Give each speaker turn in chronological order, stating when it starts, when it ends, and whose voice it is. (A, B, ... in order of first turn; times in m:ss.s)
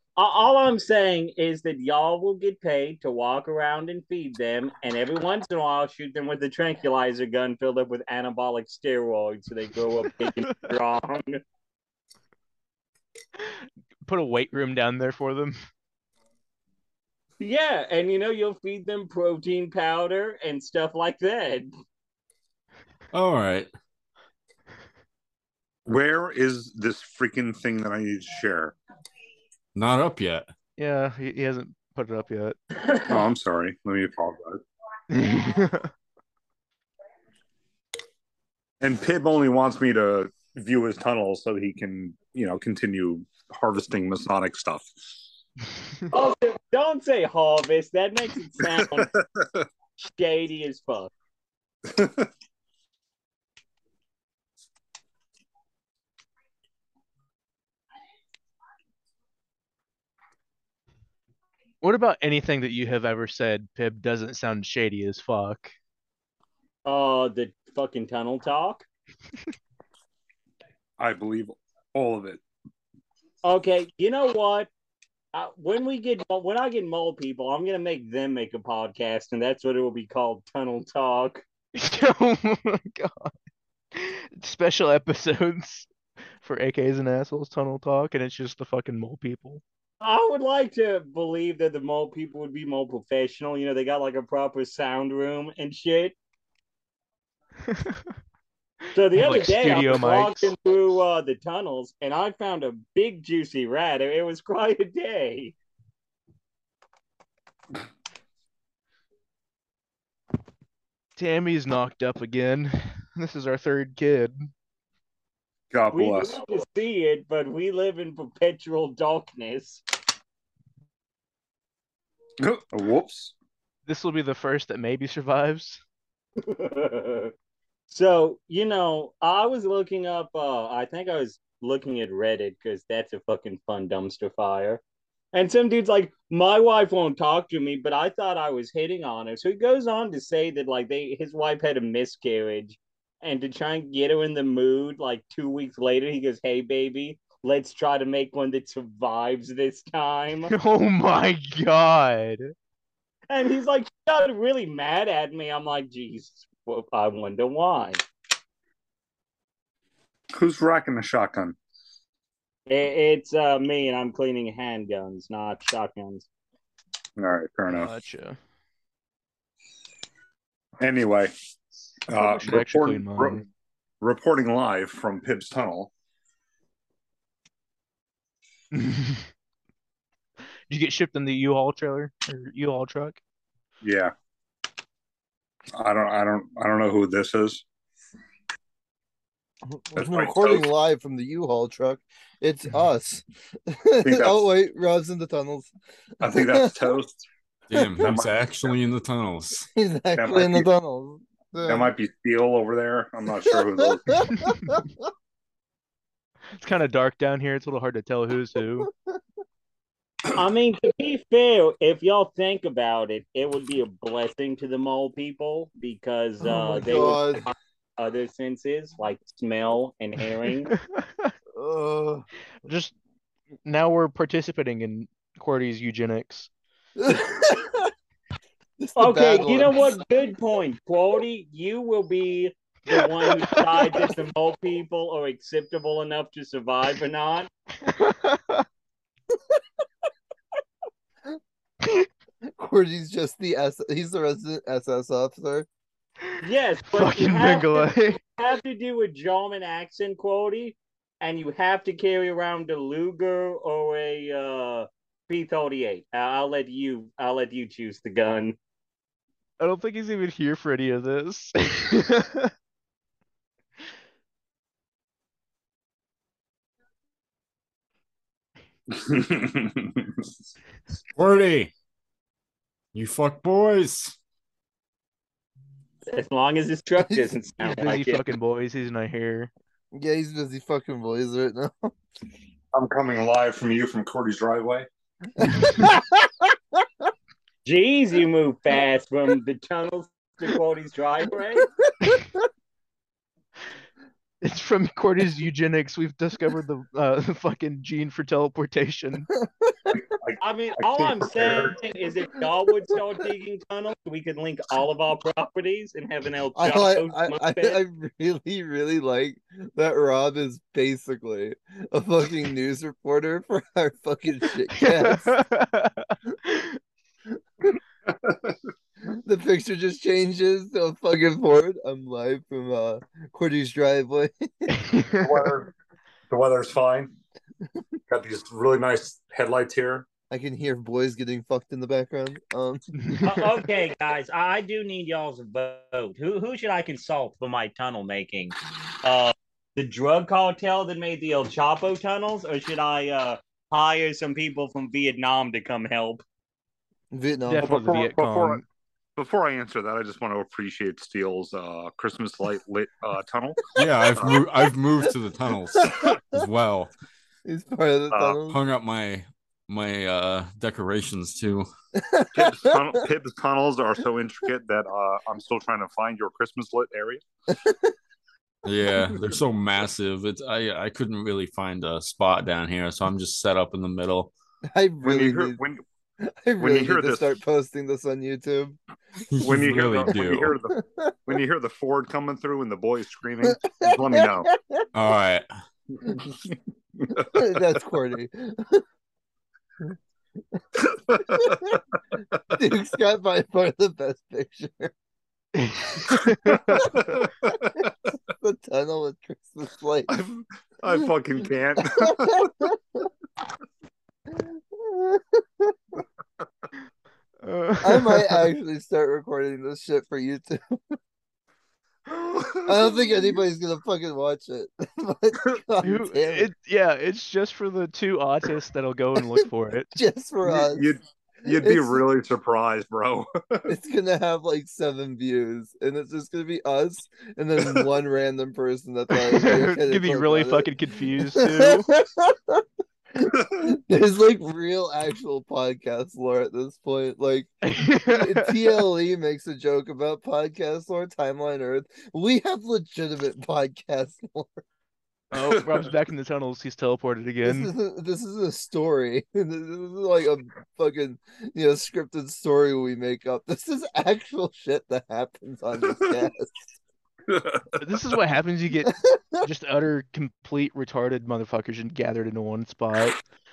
0:00.2-0:11.4 A
0:14.0-0:15.6 B
0:17.4-0:21.7 A
0:23.1-0:23.7 C
0:25.9-0:28.8 D
0:29.8-0:30.5 C
0:30.8-0:32.6 B
0:33.0-0:34.6 D
0:35.1-0:35.9 B
0:38.8-0:44.9 D
0:46.1-0:49.1 A
0:48.8-0:49.2 D
0:50.0-0:51.1 A
0:51.9-0:52.3 D
1:01.8-1:05.7 B
1:06.8-1:08.8 A
1:11.0-1:12.4 D
1:13.4-1:14.7 A
1:15.3-1:21.4 A
1:21.8-1:23.3 B
1:23.9-1:25.9 B
1:26.4-1:29.6 B
1:30.0-1:36.2 A
1:37.7-1:38.0 B
1:39.0-1:45.6 A
1:39.1-1:40.5 B
1:51.2-1:54.5 B
1:55.7-1:56.4 D
1:55.9-1:59.8 A
2:02.4-2:03.3 D
2:03.9-2:05.8 B
2:06.5-2:07.3 A
2:07.9-2:14.8 A
2:15.3-2:30.5 A
2:30.5-2:32.5 B
2:33.3-2:38.0 A
2:40.3-2:41.6 D
2:42.7-2:46.3 A
2:47.2-2:47.9 D
2:47.7-2:48.4 B
2:50.8-2:51.3 D
2:52.1-2:53.4 D
2:52.1-2:53.4 B
2:54.0-2:55.9 D
2:58.7-2:59.3 B
3:00.7-3:03.2 B
3:03.8-3:04.1 D
3:05.7-3:07.6 D
3:09.7-3:15.7 E
3:10.0-3:10.7 D
3:14.0-3:14.5 D
3:16.2-3:17.2 D
3:16.2-3:17.0 E
3:17.7-3:19.7 C
3:18.0-3:18.7 D
3:19.8-3:21.9 E
3:20.2-3:20.7 D
3:21.6-3:24.3 D
3:23.4-3:24.8 E
3:26.6-3:28.9 B
3:28.8-3:29.1 E
3:30.3-3:40.7 A
3:36.4-3:37.5 E
3:40.7-3:41.3 B
3:41.6-3:42.2 E
3:42.6-3:42.9 B
3:43.6-3:46.5 B
3:47.0-3:47.9 E
3:48.8-3:49.9 E
3:49.0-3:57.5 A
3:53.5-3:54.1 B
3:57.9-3:58.6 B
4:02.4-4:05.7 E
4:06.4-4:18.6 A
4:06.9-4:08.2 B
4:19.6-4:22.5 B
4:28.9-4:30.2 D
4:31.2-4:31.7 C
4:32.9-4:34.2 C
4:36.1-4:38.3 A
4:37.6-4:39.5 B
4:39.9-4:42.0 E
4:42.7-4:44.9 D
4:45.4-4:46.5 E
4:47.6-4:51.7 A
4:52.0-4:52.4 E
4:54.4-4:59.3 B
4:59.9-5:01.8 D
5:00.4-5:07.8 A
5:06.6-5:15.4 E
5:14.8-5:16.8 B
5:18.1-5:18.6 D
5:19.0-5:24.7 E
5:24.8-5:25.3 B
5:25.2-5:25.7 D
5:26.3-5:27.1 D
5:28.1-5:30.1 D
5:30.3-5:32.8 E
5:33.0-5:33.3 B
5:33.2-5:46.2 A
5:47.1-5:47.9 E
5:47.5-5:48.6 B
5:47.6-5:48.6 D
5:49.2-5:54.4 D
5:53.8-5:56.9 C
5:55.7-5:56.4 E
5:57.5-5:58.6 E
5:58.1-5:58.4 D
5:58.5-6:01.7 C
6:02.0-6:03.0 E
6:02.3-6:07.2 D
6:07.5-6:07.9 E
6:08.6-6:14.3 C
6:14.7-6:15.6 E
6:15.0-6:15.8 D
6:16.2-6:18.8 E
6:16.6-6:17.4 D
6:19.3-6:20.6 C
6:19.4-6:24.5 D
6:20.7-6:21.4 E
6:23.4-6:24.8 E
6:24.9-6:25.5 C
6:26.1-6:27.4 D
6:27.2-6:28.8 E
6:30.8-6:31.8 D
6:31.2-6:31.8 E
6:32.5-6:34.9 E
6:35.6-6:36.6 B
6:36.0-6:38.1 D
6:36.5-6:37.2 E
6:38.3-6:40.1 E
6:40.1-6:42.7 D
6:41.8-6:42.8 E
6:44.3-6:45.8 E
6:47.4-6:48.5 B
6:47.8-6:51.0 E
6:52.1-6:53.1 D
6:52.6-6:56.5 E
6:55.8-6:59.9 B
6:59.9-7:00.9 E
7:00.4-7:03.7 D
7:01.4-7:02.0 E
7:03.7-7:12.6 E
7:09.3-7:11.9 B
7:13.2-7:24.6 E
7:17.6-7:18.8 B
7:25.3-7:27.7 B
7:25.4-7:25.9 D
7:27.4-7:36.6 E
7:37.3-7:38.0 D
7:37.8-7:43.2 B
7:38.9-7:39.5 E